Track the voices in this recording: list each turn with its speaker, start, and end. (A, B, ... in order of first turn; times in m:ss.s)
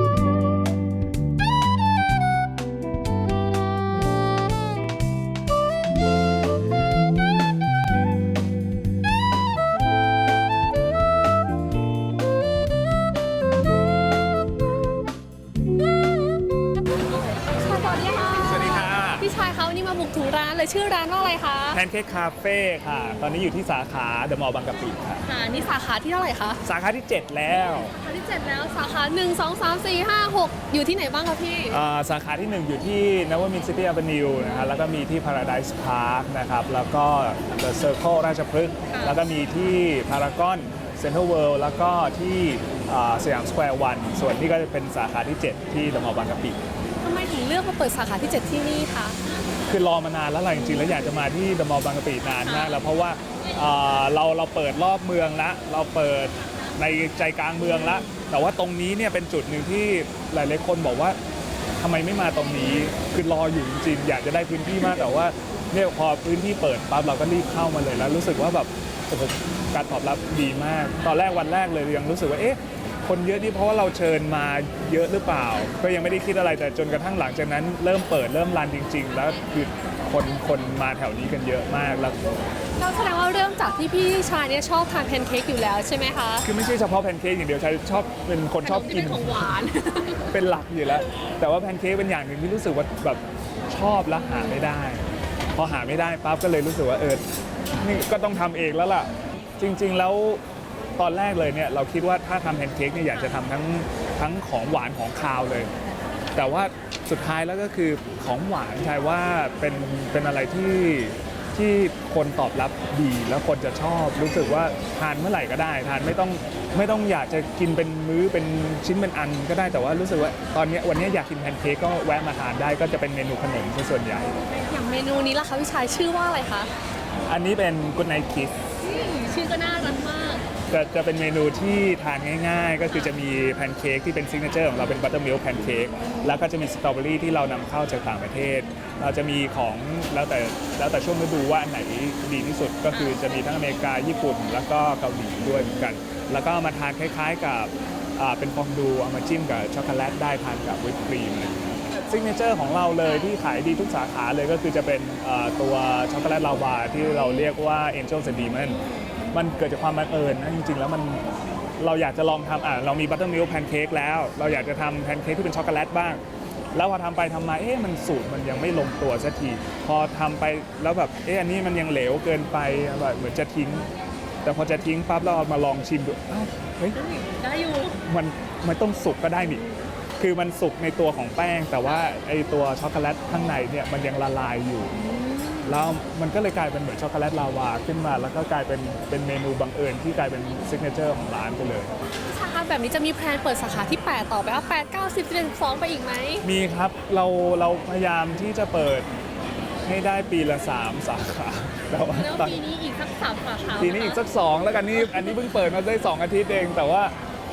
0:17.4-0:21.8 A
0:18.4-0:19.3 B
0:21.7-0:25.2 B
0:25.2-0:26.6 A
0:26.6-0:27.9 B
0:27.7-0:31.8 A
0:31.7-0:46.6 B
0:38.9-0:39.2 A
0:47.0-0:49.2 A
0:49.7-1:01.2 B
1:01.8-1:22.2 B
1:22.8-1:26.5 A
1:26.4-1:29.5 B
1:28.6-1:30.3 A
1:30.3-1:35.0 B
1:35.6-1:37.2 B
1:37.8-1:39.1 B
1:39.6-1:40.4 B
1:41.0-1:45.7 B
1:46.3-2:04.3 B
2:04.5-2:06.7 A
2:07.3-2:08.5 B
2:08.8-2:10.4 A
2:10.7-2:38.8 B
2:25.5-2:25.9 A
2:38.6-2:39.1 A
2:39.3-2:41.2 B
2:41.8-2:46.2 B
2:46.7-2:53.9 B
2:54.4-2:57.0 B
2:56.9-2:58.0 A
2:58.0-2:59.6 B
3:00.2-3:05.0 B
3:04.9-3:05.9 A
3:05.6-3:12.0 B
3:12.3-3:16.4 A
3:16.4-3:19.1 B
3:19.8-3:22.6 B
3:22.1-3:24.2 A
3:23.8-3:27.1 B